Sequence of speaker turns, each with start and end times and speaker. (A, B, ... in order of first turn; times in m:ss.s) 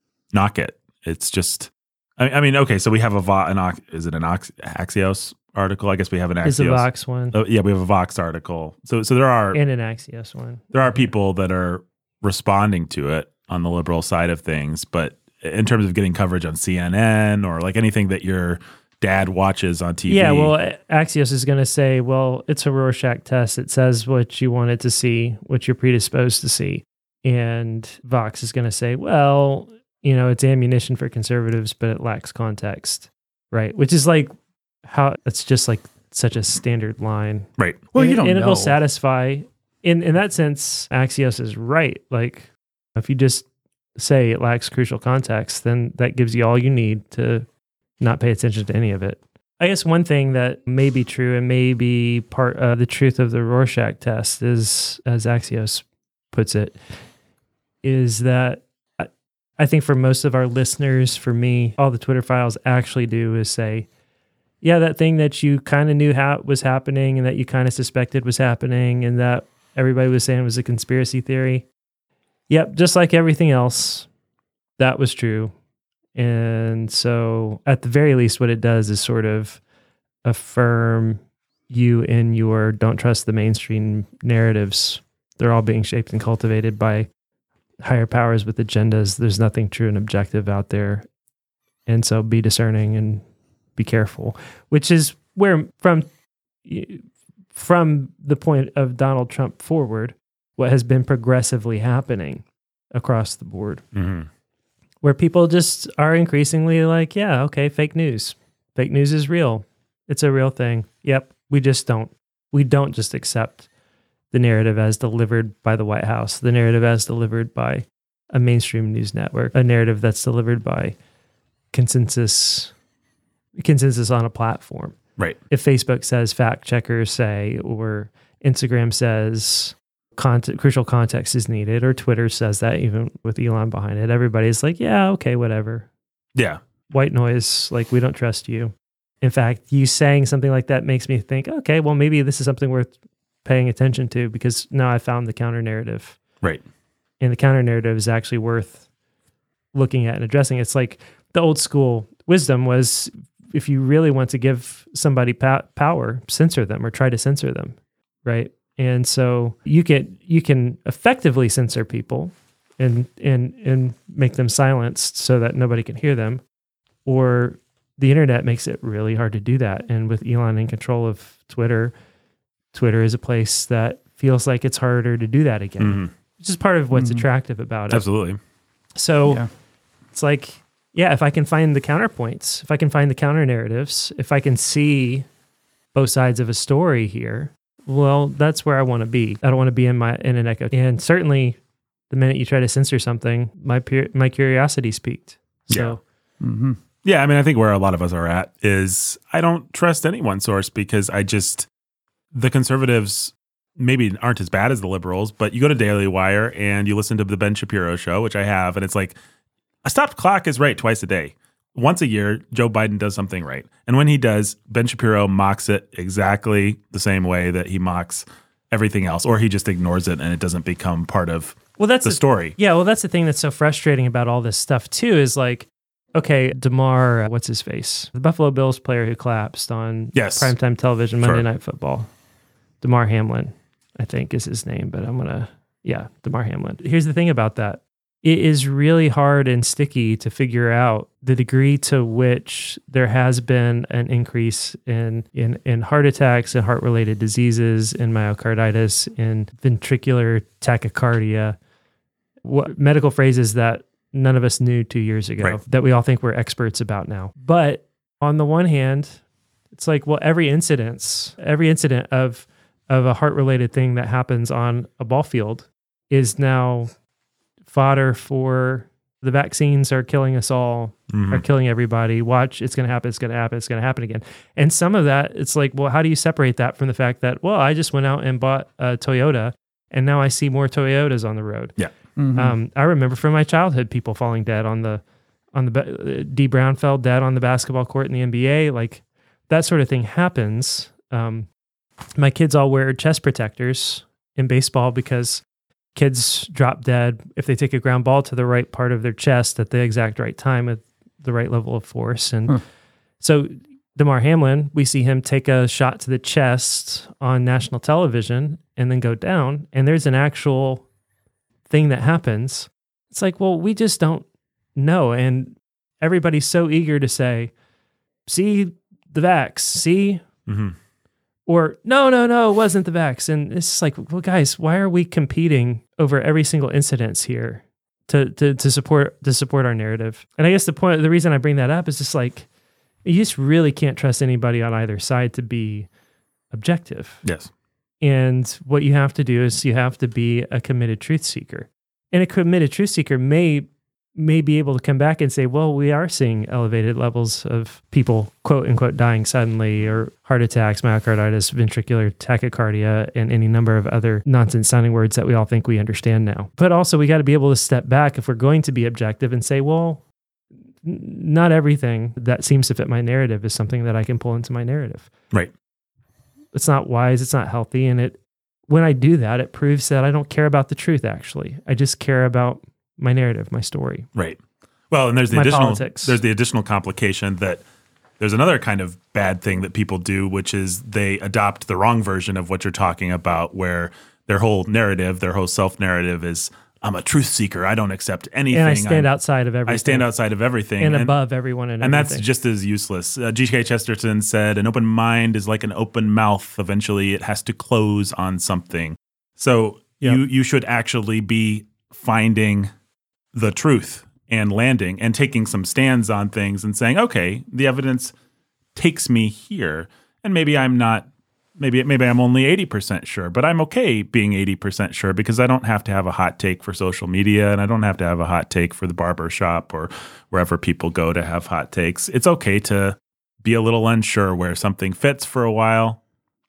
0:00.3-0:09.6 A
0:06.4-0:07.4 B
0:09.5-0:11.0 B
0:10.7-0:20.5 A
0:20.1-0:34.3 B
0:34.8-0:47.5 B
0:37.9-0:38.8 C
0:48.0-0:56.8 B
0:57.8-0:59.1 B
0:59.6-1:03.9 B
1:04.6-1:11.7 B
1:12.5-1:14.1 B
1:14.8-1:15.5 B
1:16.2-1:19.6 B
1:20.2-1:27.1 B
1:27.8-1:31.0 B
1:31.9-1:33.2 B
1:33.8-1:36.1 B
1:36.6-1:43.8 B
1:44.0-1:44.3 A
1:45.0-1:53.7 B
1:54.3-2:01.0 B
2:01.7-2:02.7 B
2:03.6-2:05.0 B
2:05.5-2:15.9 B
2:16.4-2:16.6 A
2:16.9-2:22.9 B
2:23.4-2:26.2 B
2:27.2-2:28.8 B
2:29.7-2:46.4 B
2:47.1-2:51.9 B
2:52.7-2:58.0 B
2:55.8-2:56.1 A
2:56.9-2:57.3 C
2:57.9-2:58.4 A
2:59.0-2:59.5 B
3:00.1-3:05.3 B
3:05.9-3:11.6 B
3:12.1-3:16.0 B
3:15.7-3:16.0 A
3:16.4-3:16.8 C
3:17.0-3:21.7 A
3:22.3-3:29.2 A
3:29.8-3:42.6 A
3:41.8-3:52.1 B
3:50.1-3:50.5 A
3:52.8-4:11.6 B
4:12.4-4:26.9 B
4:27.7-4:41.8 B
4:31.1-4:31.4 A
4:42.2-4:42.6 C
4:42.4-4:45.0 B
4:45.5-4:51.5 B
4:52.2-4:55.4 B
4:56.0-5:02.6 B
5:03.2-5:10.8 B
5:11.7-5:14.2 B
5:14.8-5:17.5 B
5:18.3-5:20.2 B
5:20.5-5:20.8 A
5:21.5-5:32.5 B
5:33.0-5:35.9 B
5:36.5-5:37.2 B
5:37.2-5:37.5 A
5:38.0-6:00.0 B
6:00.8-6:05.1 B
6:06.5-6:14.1 B
6:14.9-6:17.6 A
6:15.3-6:16.2 B
6:18.2-6:29.1 A
6:28.5-6:30.1 B
6:29.7-6:31.2 A
6:30.8-6:32.2 B
6:31.8-6:42.7 A
6:43.3-6:48.1 A
6:48.8-7:06.0 A